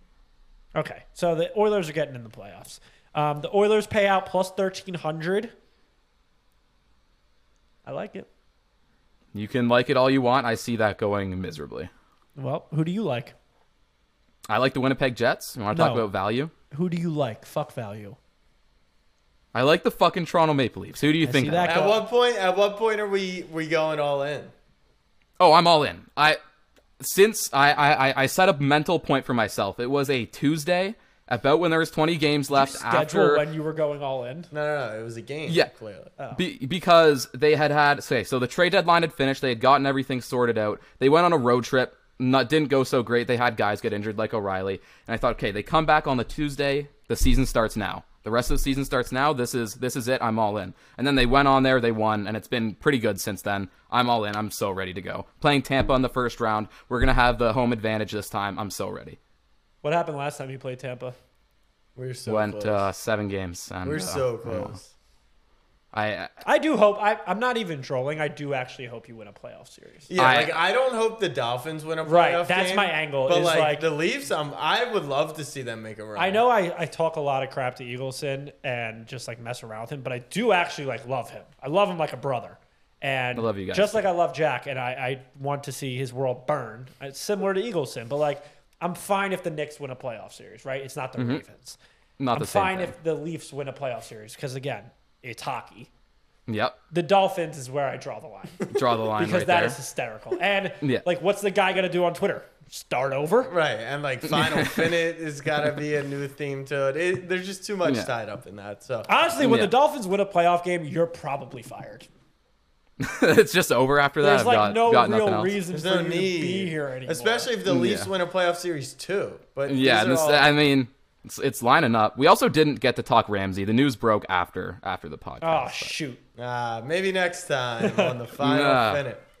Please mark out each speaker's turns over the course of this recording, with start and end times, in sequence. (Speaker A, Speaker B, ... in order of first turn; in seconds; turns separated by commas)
Speaker A: 0.7-5.5, Speaker A: 7.8-8.3, Speaker B: 9.3-11.9, Speaker A: 12.3-13.3, Speaker B: 14.5-16.5, Speaker A: 15.7-16.1, Speaker A: 16.7-18.2, Speaker B: 19.5-21.8, Speaker A: 21.2-22.0, Speaker C: 21.6-24.5, Speaker B: 25.4-26.4, Speaker B: 27.0-33.4, Speaker A: 32.5-34.5, Speaker C: 34.5-36.1, Speaker B: 36.3-59.2, Speaker A: 59.8-61.1, Speaker C: 62.0-62.9, Speaker B: 62.2-64.8, Speaker C: 63.8-64.9, Speaker B: 65.9-66.3, Speaker A: 66.4-70.1, Speaker C: 70.1-76.4, Speaker B: 70.2-70.6, Speaker A: 72.0-73.8, Speaker A: 76.2-91.8, Speaker B: 83.3-84.0, Speaker B: 92.2-92.9, Speaker A: 92.3-95.9, Speaker B: 96.5-96.8, Speaker A: 96.9-103.5, Speaker B: 98.7-99.8, Speaker C: 103.4-109.1, Speaker B: 104.3-105.0, Speaker B: 107.8-108.1, Speaker A: 109.1-112.1, Speaker B: 109.4-109.7, Speaker B: 113.0-115.5, Speaker A: 114.2-117.5, Speaker C: 115.7-120.5, Speaker B: 117.7-118.1, Speaker B: 119.7-125.9, Speaker A: 125.4-126.2, Speaker C: 126.3-129.2, Speaker A: 127.8-128.1, Speaker B: 128.4-129.0